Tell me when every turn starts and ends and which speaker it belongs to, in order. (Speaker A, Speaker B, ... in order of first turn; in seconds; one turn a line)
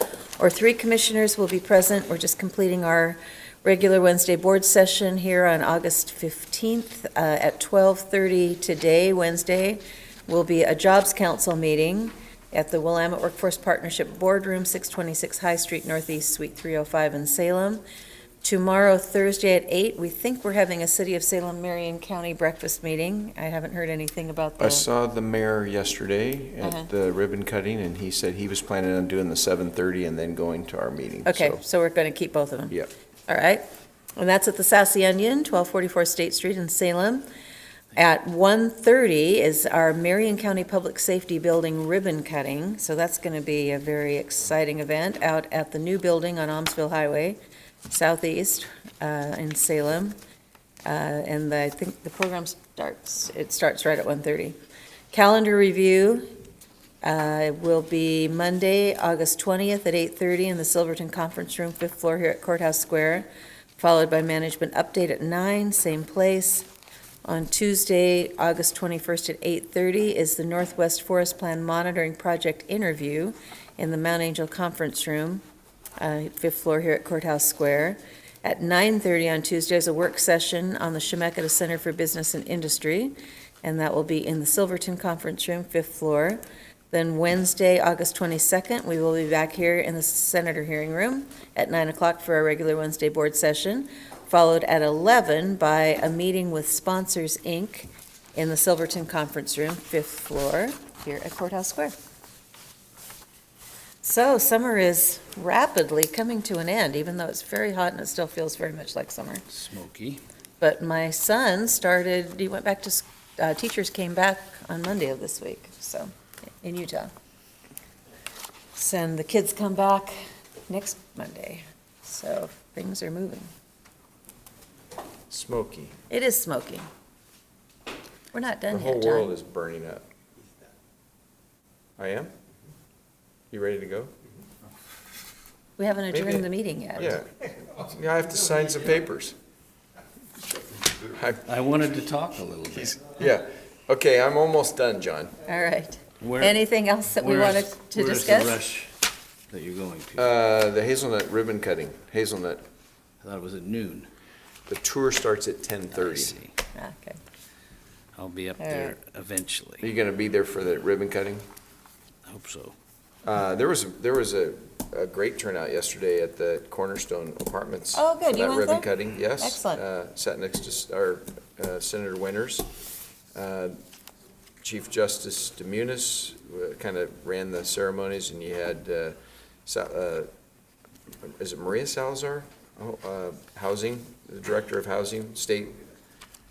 Speaker A: 0.4-17.8
Speaker A: 18.4-24.9
Speaker B: 24.6-31.6
Speaker A: 26.6-26.9
Speaker A: 31.2-32.7
Speaker A: 33.3-33.6
Speaker A: 34.2-37.2
Speaker A: 38.0-47.4
Speaker A: 47.9-50.2
Speaker A: 50.8-54.6
Speaker A: 55.1-56.3
Speaker A: 57.0-66.7
Speaker A: 67.2-75.4
Speaker A: 76.0-86.4
Speaker A: 86.9-101.9
Speaker A: 104.0-109.5
Speaker C: 109.5-110.2
Speaker A: 110.6-117.1
Speaker A: 118.8-120.1
Speaker A: 120.7-123.5
Speaker B: 125.3-126.0
Speaker A: 126.1-126.9
Speaker A: 128.3-129.3
Speaker B: 128.7-130.0
Speaker B: 132.0-132.3
Speaker B: 133.5-134.1
Speaker A: 135.8-137.2
Speaker B: 136.1-136.5
Speaker B: 137.0-139.3
Speaker B: 141.1-141.4
Speaker C: 141.4-143.0
Speaker B: 142.8-145.3
Speaker A: 145.4-148.6
Speaker C: 146.2-146.6
Speaker C: 147.2-149.0
Speaker C: 149.5-150.2
Speaker B: 150.2-152.6
Speaker C: 153.2-154.1
Speaker B: 154.7-156.4
Speaker C: 155.9-156.5
Speaker A: 156.7-157.2
Speaker C: 158.2-159.9
Speaker A: 158.6-158.9
Speaker B: 159.8-161.4
Speaker C: 162.2-162.8
Speaker B: 163.2-172.7
Speaker A: 167.9-169.8
Speaker B: 173.3-173.8
Speaker B: 174.6-180.3
Speaker B: 181.2-185.8